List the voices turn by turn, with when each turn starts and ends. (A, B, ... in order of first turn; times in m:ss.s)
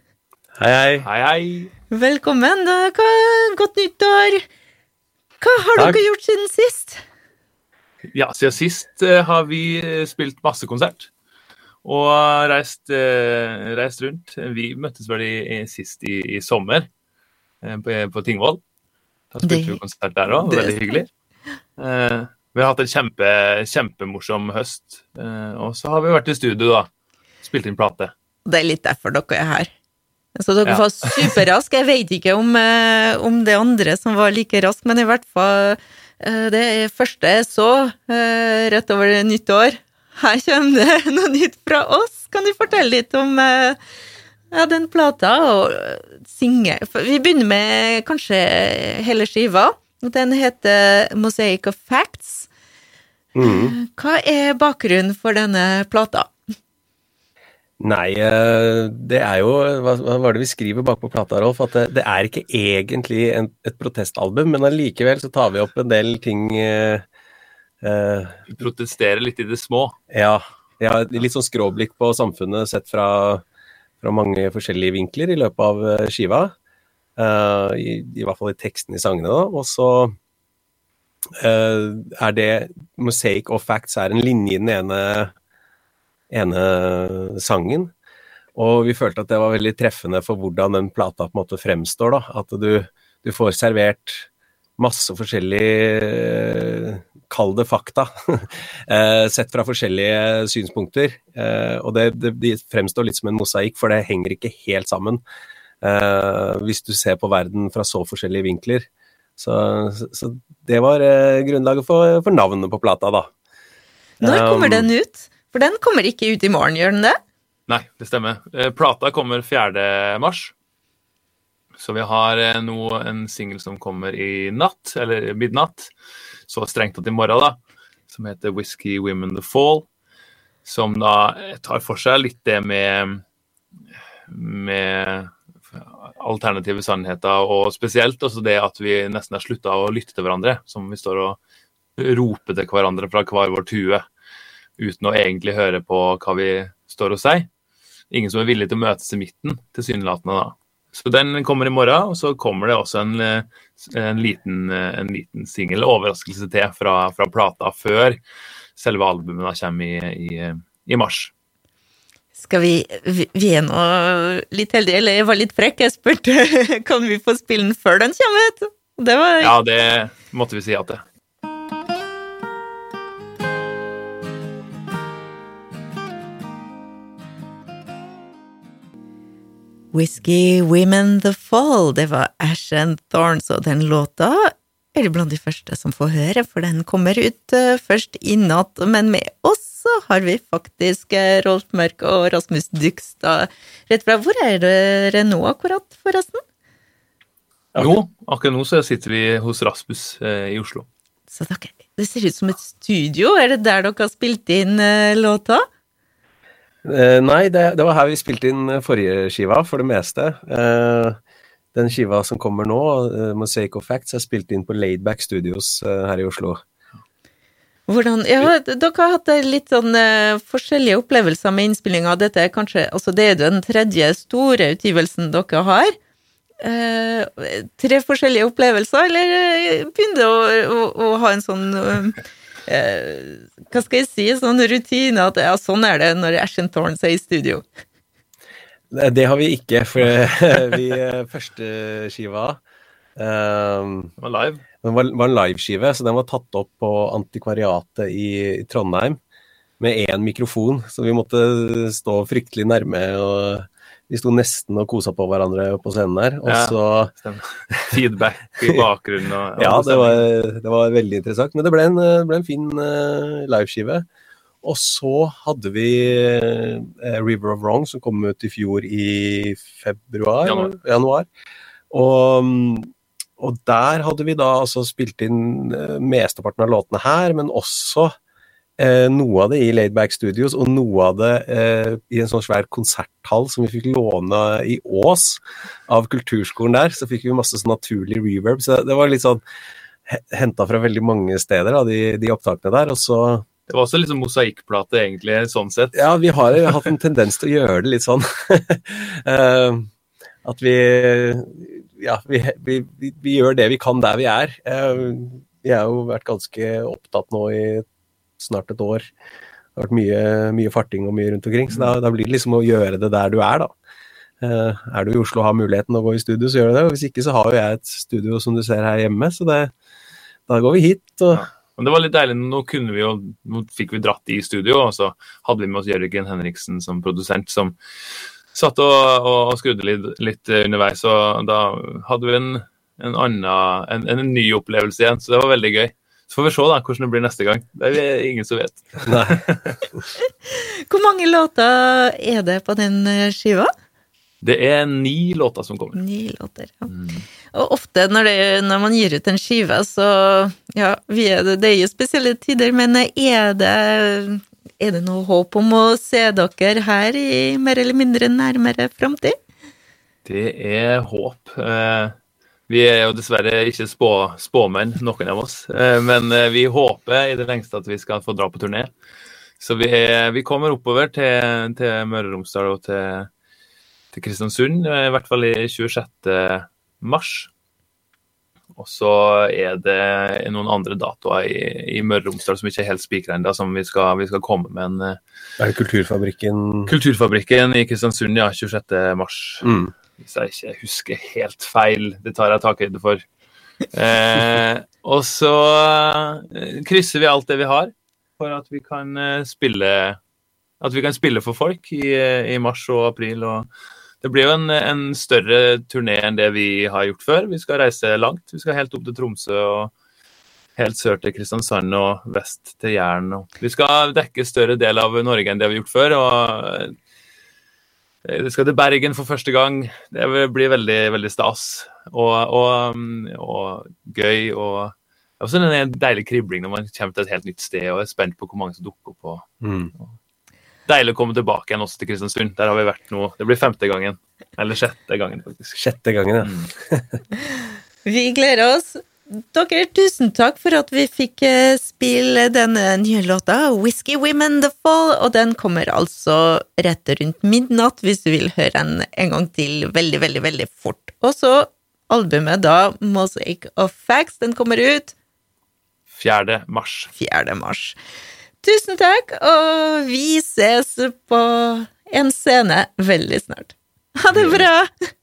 0:00.6-0:01.1 A
0:01.0-0:01.7 B
0:01.9-0:04.4 C
0:05.4-0:07.0 C
0:08.1-0:11.1 B
0:11.8-0:16.9 B
0:17.6-0:18.6 B
0:19.3-0:21.1 B
0:19.4-0:21.0 C
0:21.8-0:26.9 B
0:27.4-0:28.1 B
0:28.5-0:29.7 C
0:30.4-0:43.8 C
0:30.7-0:31.4 B
0:44.5-0:52.5 C
0:53.3-0:53.8 A
0:53.4-0:56.3 C
0:57.8-1:07.0 A
1:07.8-1:08.5 A
1:08.5-1:10.0 B
1:10.1-1:13.4 A
1:14.0-1:16.5 A
1:17.2-1:20.2 A
1:21.4-1:25.3 A
1:26.3-1:27.9 A
1:28.6-1:45.2 A
1:45.8-1:48.9 A
1:49.4-1:53.3 A
1:54.2-1:54.9 A
1:54.2-1:57.2 C
1:57.7-2:00.5 B
2:01.8-2:05.9 B
2:06.5-2:07.6 B
2:08.1-2:09.9 B
2:10.6-2:13.2 B
2:14.3-2:21.4 B
2:22.0-2:24.0 B
2:24.8-2:27.5 B
2:28.1-2:38.2 B
2:38.8-2:41.3 B
2:42.4-2:49.5 C
2:49.4-2:51.0 B
2:59.9-3:16.4 C
3:17.8-3:20.9 B
3:21.3-3:25.6 C
3:26.8-3:31.2 A
3:31.7-3:36.6 A
3:37.9-3:46.0 C
3:46.6-3:57.6 C
3:58.9-4:02.6 A
4:03.2-4:04.1 A
4:04.2-4:04.6 B
4:04.8-4:09.2 A
4:09.8-4:17.1 A
4:16.5-4:20.2 B
4:19.6-4:24.0 A
4:24.6-4:31.3 A
4:31.9-4:38.1 A
4:38.8-4:49.4 A
4:50.1-4:53.4 A
4:53.7-4:56.0 B
4:55.9-4:59.9 A
5:00.4-5:07.8 A
5:08.4-5:09.0 A
5:09.8-5:13.7 A
5:14.4-5:19.7 A
5:20.5-5:21.4 A
5:21.3-5:27.8 B
5:28.5-5:39.8 B
5:39.1-5:39.4 A
5:40.5-5:43.7 C
5:44.4-5:46.0 B
5:46.0-5:46.9 C
5:46.9-5:47.2 B
5:47.5-5:59.4 C
6:00.2-6:02.1 B
6:02.7-6:08.9 B
6:09.6-6:13.3 B
6:14.1-6:17.5 B
6:18.8-6:25.2 B
6:25.6-6:26.9 A
6:26.9-6:29.7 B
6:29.6-6:29.9 A
6:30.2-6:33.2 B
6:33.9-6:40.2 B
6:40.8-6:43.7 B
6:44.2-6:49.9 B
6:50.8-6:56.9 B
6:58.2-7:09.4 B
7:09.6-7:09.9 A
7:10.9-7:15.8 B
7:15.8-7:17.2 A
7:16.4-7:16.7 B
7:18.0-7:35.1 C
7:36.1-7:37.1 B
7:37.1-7:38.0 C
7:38.6-7:44.9 C